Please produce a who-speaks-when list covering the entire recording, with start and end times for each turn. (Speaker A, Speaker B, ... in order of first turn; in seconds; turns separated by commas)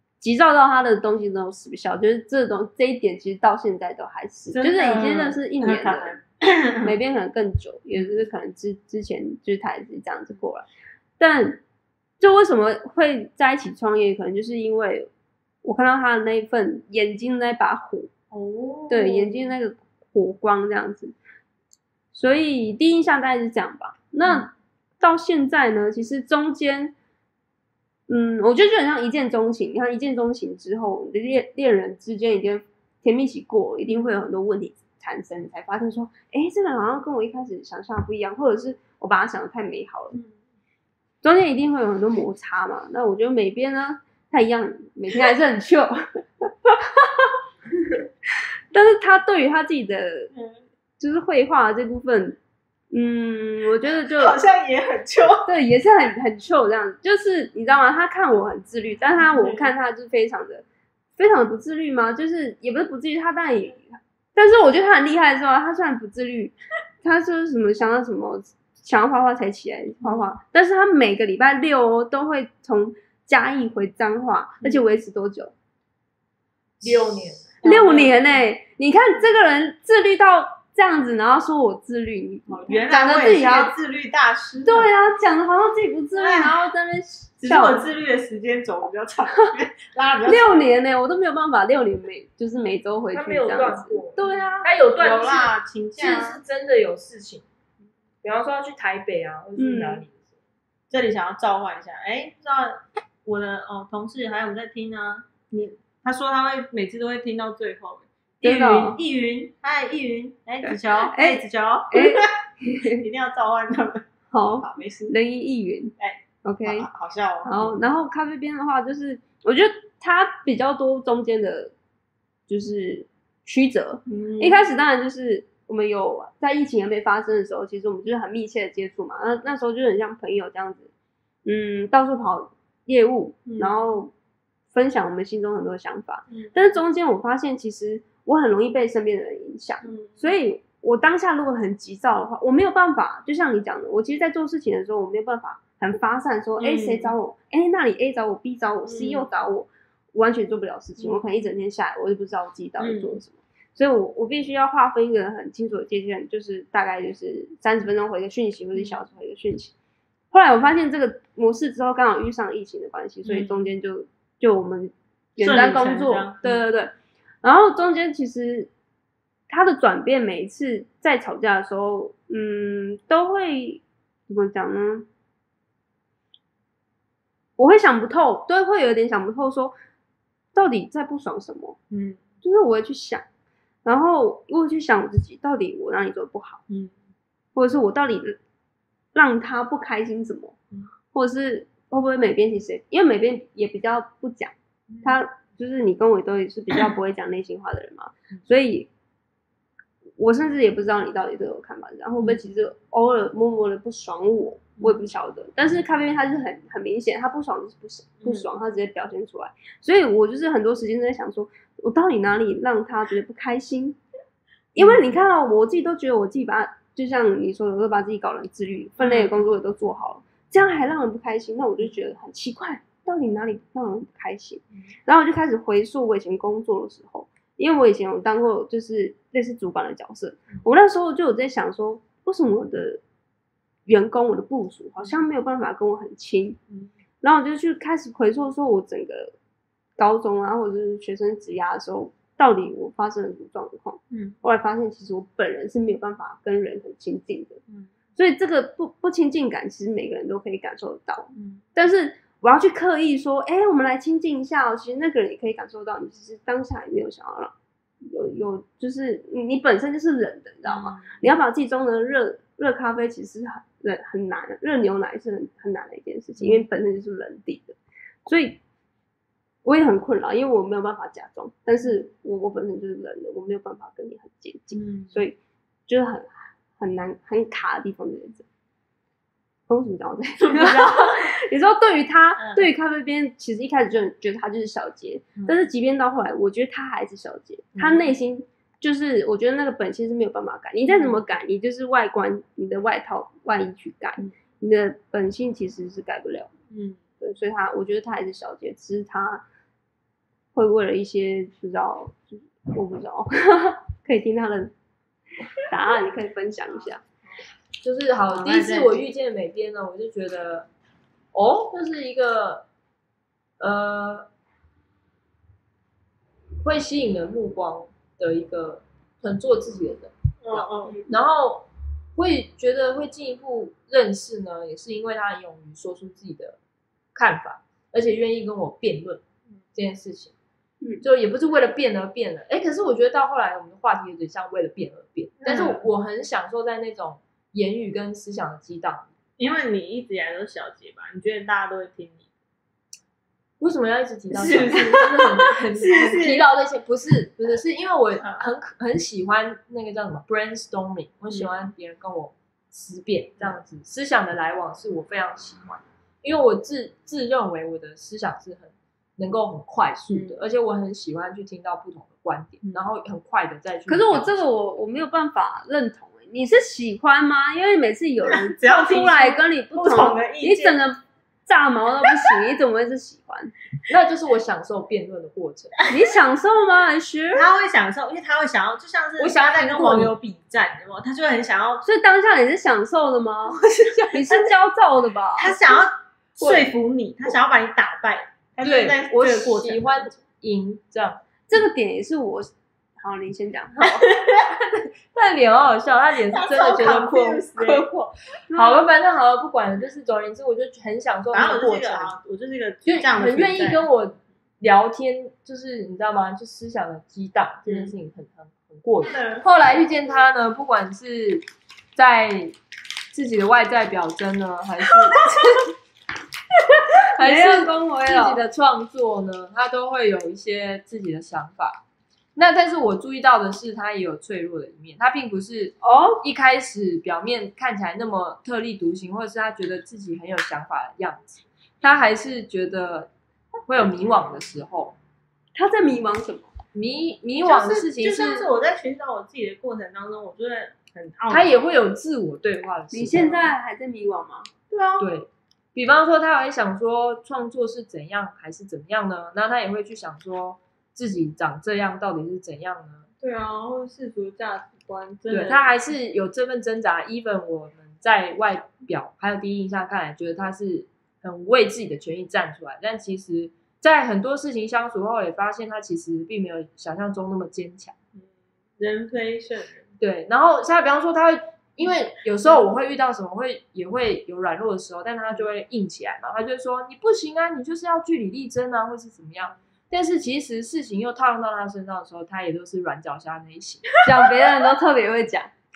Speaker A: 0.2-6.1, Speaker B: 4.5-6.9, Speaker A: 6.8-10.6, Speaker A: 11.2-11.6, Speaker A: 12.2-15.1, Speaker A: 15.6-18.1, Speaker B: 18.3-19.5, Speaker A: 18.9-21.1, Speaker A: 22.1-26.9, Speaker A: 28.1-40.2, Speaker B: 33.9-34.2, Speaker A: 41.2-46.0, Speaker A: 47.0-47.3, Speaker A: 48.7-50.3, Speaker B: 50.3-50.6, Speaker A: 51.0-52.4, Speaker A: 52.9-54.4, Speaker B: 54.0-55.5, Speaker A: 55.5-60.6, Speaker B: 59.3-59.7, Speaker A: 61.2-75.5, Speaker B: 70.0-70.3, Speaker C: 76.8-77.6, Speaker B: 77.6-78.2, Speaker A: 77.6-83.7, Speaker B: 82.5-84.9, Speaker A: 84.7-87.8, Speaker B: 86.2-86.5, Speaker B: 87.4-90.7, Speaker A: 90.2-94.7, Speaker C: 93.1-97.4, Speaker B: 95.0-96.4, Speaker C: 98.2-100.3, Speaker A: 99.6-100.0, Speaker B: 100.9-112.3, Speaker A: 108.4-109.0, Speaker A: 110.6-113.0, Speaker B: 112.8-115.2, Speaker A: 114.3-115.9, Speaker B: 116.0-117.8, Speaker A: 116.4-116.9, Speaker A: 117.4-121.7, Speaker A: 122.5-130.9, Speaker B: 124.0-124.6, Speaker A: 131.4-134.1, Speaker B: 133.4-133.8, Speaker A: 134.7-159.7, Speaker B: 136.3-136.8, Speaker B: 139.8-140.3, Speaker B: 146.6-147.1, Speaker B: 148.9-149.3, Speaker B: 152.8-153.2, Speaker A: 160.3-168.7, Speaker B: 163.2-163.7, Speaker B: 165.4-166.6, Speaker A: 169.5-175.1, Speaker A: 177.6-179.7, Speaker A: 180.5-181.8, Speaker B: 181.9-182.2, Speaker A: 182.4-183.2, Speaker A: 183.8-186.6, Speaker B: 186.7-186.9, Speaker A: 187.5-188.4, Speaker A: 189.1-190.6, Speaker A: 191.1-198.9, Speaker B: 194.9-195.2, Speaker A: 200.2-214.0, Speaker A: 214.7-233.0, Speaker B: 219.0-219.3, Speaker A: 233.8-236.6, Speaker A: 237.2-239.3, Speaker A: 240.0-247.6, Speaker A: 248.2-268.6, Speaker B: 251.3-251.6, Speaker B: 260.6-261.2, Speaker B: 266.4-266.6, Speaker A: 269.6-275.4, Speaker B: 274.7-275.2, Speaker A: 275.9-278.4, Speaker A: 279.7-296.5, Speaker B: 280.4-281.3, Speaker B: 282.4-282.7, Speaker B: 285.4-285.6, Speaker B: 287.7-288.1, Speaker B: 290.9-291.2, Speaker B: 296.7-297.0, Speaker A: 297.2-299.4, Speaker A: 300.5-304.7, Speaker A: 305.6-307.0, Speaker C: 307.8-310.7, Speaker B: 308.3-309.0, Speaker C: 311.3-312.6, Speaker C: 313.6-314.3, Speaker C: 316.6-326.6, Speaker B: 320.4-321.0, Speaker C: 327.1-329.2, Speaker C: 329.7-330.3, Speaker C: 331.0-339.1, Speaker B: 335.4-335.8, Speaker B: 339.4-342.3, Speaker C: 343.6-364.4, Speaker B: 344.3-346.4, Speaker B: 348.2-348.5, Speaker B: 360.1-360.4, Speaker A: 363.9-373.5, Speaker B: 368.2-370.8, Speaker C: 373.9-375.8, Speaker A: 375.9-377.5, Speaker B: 377.3-381.8, Speaker C: 379.2-380.1, Speaker A: 381.8-385.6, Speaker B: 385.4-390.1, Speaker C: 388.6-391.2, Speaker A: 391.5-394.1, Speaker B: 393.9-394.4, Speaker C: 394.4-397.9, Speaker B: 396.3-398.1, Speaker A: 398.5-398.8, Speaker C: 398.5-402.1, Speaker B: 401.3-403.8, Speaker C: 402.8-411.4, Speaker B: 407.6-407.9, Speaker B: 409.0-409.4, Speaker C: 411.9-412.6, Speaker C: 413.1-415.5, Speaker C: 417.1-421.8, Speaker A: 417.2-418.4, Speaker C: 422.4-433.1, Speaker A: 425.8-426.2, Speaker C: 433.7-435.0, Speaker A: 435.5-436.5, Speaker C: 436.7-438.5, Speaker B: 437.4-441.5, Speaker C: 441.3-443.5, Speaker A: 442.9-444.5, Speaker B: 444.7-445.1, Speaker C: 445.0-453.1, Speaker B: 453.2-455.7, Speaker C: 455.3-467.9, Speaker B: 468.1-469.9, Speaker C: 470.0-484.0, Speaker A: 484.0-485.5